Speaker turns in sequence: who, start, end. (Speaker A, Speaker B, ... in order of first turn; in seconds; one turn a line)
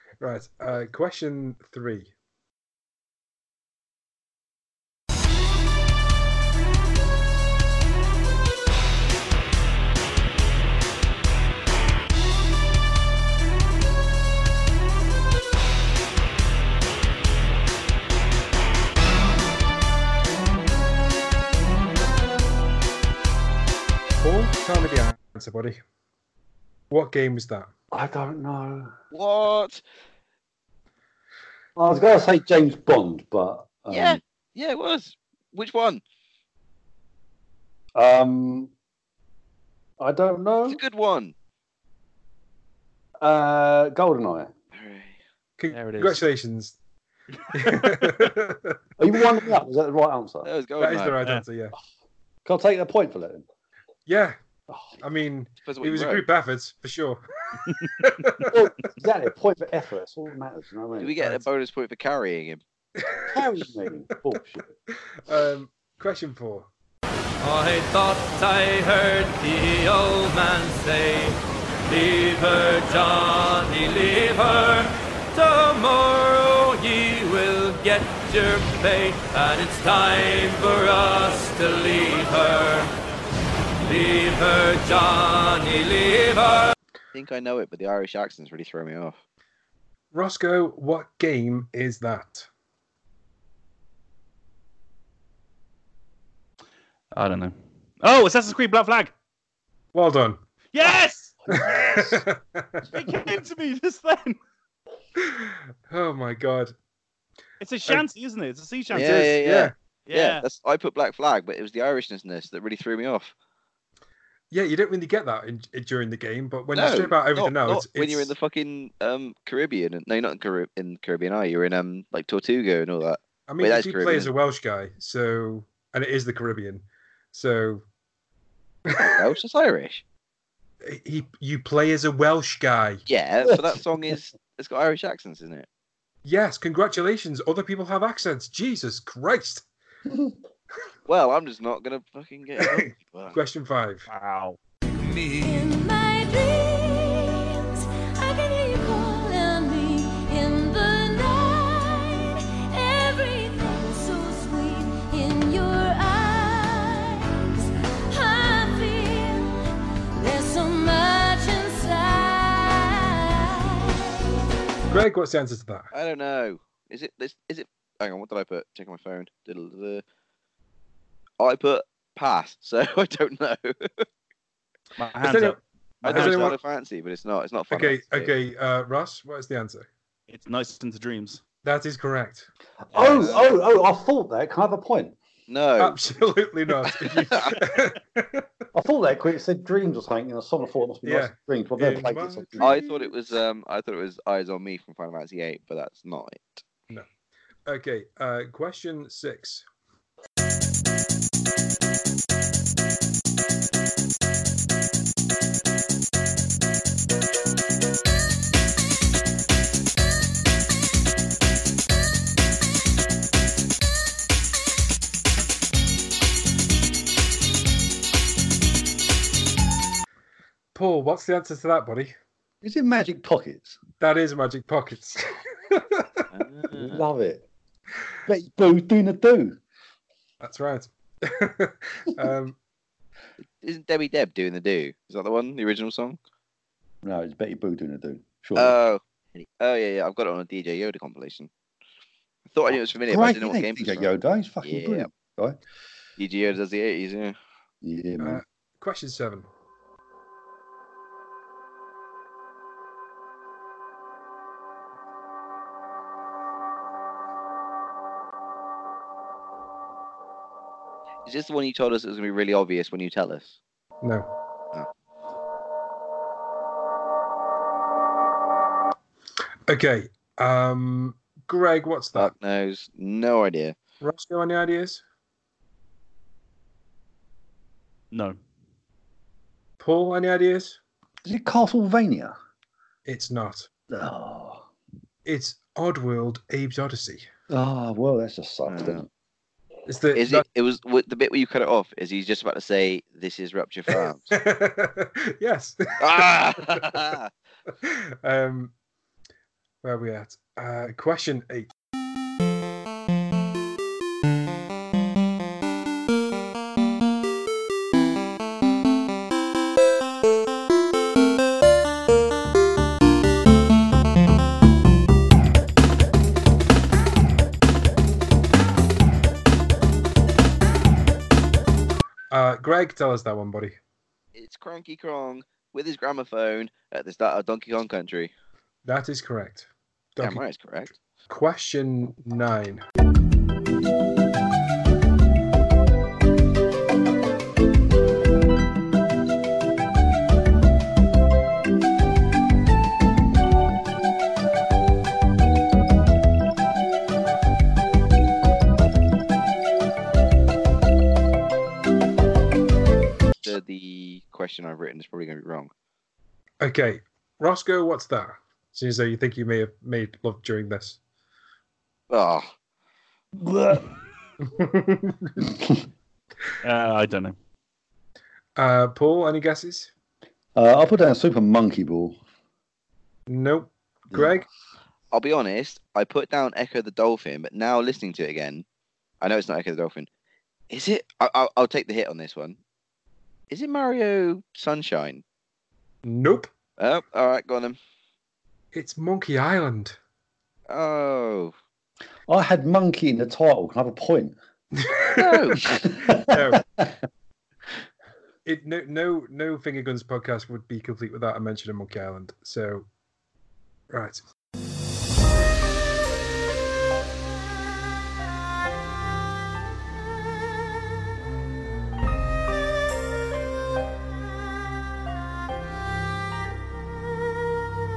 Speaker A: 0.2-2.1
Speaker A: 24.2-25.8
Speaker A: 26.9-27.7
Speaker B: 27.9-28.9
Speaker C: 29.1-29.8
Speaker B: 31.8-34.2
Speaker C: 33.9-36.0
Speaker B: 38.0-38.7
Speaker B: 40.0-40.8
Speaker C: 40.7-41.3
Speaker B: 43.2-44.5
Speaker C: 44.7-45.2
Speaker A: 45.6-46.8
Speaker D: 45.7-46.2
Speaker D: 47.5-48.1
Speaker A: 47.5-48.8
Speaker B: 49.0-50.5
Speaker C: 50.4-51.1
Speaker A: 50.8-51.7
Speaker B: 52.4-53.4
Speaker A: 54.1-54.4
Speaker B: 54.7-55.0
Speaker A: 55.0-58.6
Speaker C: 55.6-56.2
Speaker D: 57.6-58.1
Speaker B: 58.5-61.4
Speaker C: 61.0-62.6
Speaker A: 63.0-63.4
Speaker B: 63.3-64.7
Speaker A: 65.1-66.7
Speaker E: 67.4-71.3
Speaker E: 71.9-82.9
Speaker E: 83.8-86.7
Speaker C: 87.1-89.2
Speaker A: 90.1-92.5
Speaker D: 97.1-99.1
Speaker A: 99.9-100.4
Speaker D: 100.7-102.2
Speaker B: 101.5-102.1
Speaker A: 101.5-102.9
Speaker D: 102.9-104.4
Speaker A: 105.2-106.7
Speaker D: 107.6-109.2
Speaker C: 108.9-113.3
Speaker A: 108.9-109.7
Speaker D: 110.1-110.4
Speaker A: 114.5-118.3
Speaker C: 116.7-124.3
Speaker A: 123.5-127.8
Speaker C: 129.0-130.0
Speaker A: 130.8-133.0
Speaker C: 133.1-135.7
Speaker A: 136.2-139.7
Speaker C: 141.1-143.4
Speaker A: 142.6-144.1
Speaker D: 144.1-144.6
Speaker E: 145.0-145.4
Speaker F: 145.4-157.3
Speaker F: 158.1-159.5
Speaker F: 160.2-163.8
Speaker A: 164.9-165.9
Speaker C: 165.9-170.0
Speaker C: 171.4-174.1
Speaker D: 175.0-176.6
Speaker A: 175.2-176.6
Speaker C: 176.0-178.3
Speaker A: 177.7-179.9
Speaker D: 180.3-181.4
Speaker A: 181.6-182.5
Speaker B: 182.9-185.2
Speaker C: 182.9-183.5
Speaker C: 185.5-186.0
Speaker A: 185.8-188.6
Speaker C: 186.9-187.6
Speaker B: 188.7-192.8
Speaker A: 191.0-192.9
Speaker C: 192.6-196.6
Speaker A: 197.7-199.6
Speaker A: 220.7-222.1
Speaker B: 222.6-223.8
Speaker A: 224.0-226.3
Speaker C: 226.3-227.0
Speaker B: 226.7-227.4
Speaker B: 228.2-229.6
Speaker A: 230.4-232.6
Speaker C: 233.6-236.2
Speaker B: 237.0-238.8
Speaker C: 238.6-241.5
Speaker C: 242.5-244.1
Speaker B: 242.7-245.6
Speaker C: 244.6-245.1
Speaker C: 246.2-247.3
Speaker B: 247.8-248.4
Speaker A: 248.2-249.5
Speaker C: 261.2-263.6
Speaker A: 264.0-264.3
Speaker A: 269.7-272.3
Speaker C: 272.1-273.7
Speaker A: 274.0-275.0
Speaker D: 278.1-278.4
Speaker A: 279.8-280.8
Speaker B: 281.2-282.3
Speaker A: 283.1-283.7
Speaker B: 283.9-284.7
Speaker A: 285.2-287.3
Speaker B: 287.5-289.1
Speaker C: 288.7-289.0
Speaker A: 289.9-290.4
Speaker C: 290.1-294.3
Speaker A: 293.9-297.1
Speaker C: 296.0-297.3
Speaker A: 297.7-298.7
Speaker A: 299.8-301.7
Speaker A: 322.3-323.8
Speaker C: 324.3-328.3
Speaker A: 328.8-330.4
Speaker C: 330.2-330.9
Speaker A: 331.3-332.8
Speaker C: 353.4-355.7
Speaker A: 356.6-361.0
Speaker C: 362.1-362.5
Speaker B: 363.4-363.9
Speaker A: 364.5-365.5
Speaker B: 365.4-365.8
Speaker D: 366.6-367.3
Speaker A: 368.6-369.9
Speaker B: 370.6-372.2
Speaker A: 373.3-374.4
Speaker B: 374.1-374.4
Speaker C: 375.1-378.6
Speaker C: 379.2-380.1
Speaker C: 380.7-382.6
Speaker C: 383.5-385.2
Speaker A: 386.1-386.5
Speaker C: 386.8-387.8
Speaker A: 388.7-390.0
Speaker C: 390.7-391.5
Speaker B: 392.3-394.4
Speaker A: 394.9-395.6
Speaker C: 395.1-395.8
Speaker B: 395.6-396.9
Speaker A: 396.1-396.6
Speaker A: 398.4-402.9
Speaker A: 403.9-404.2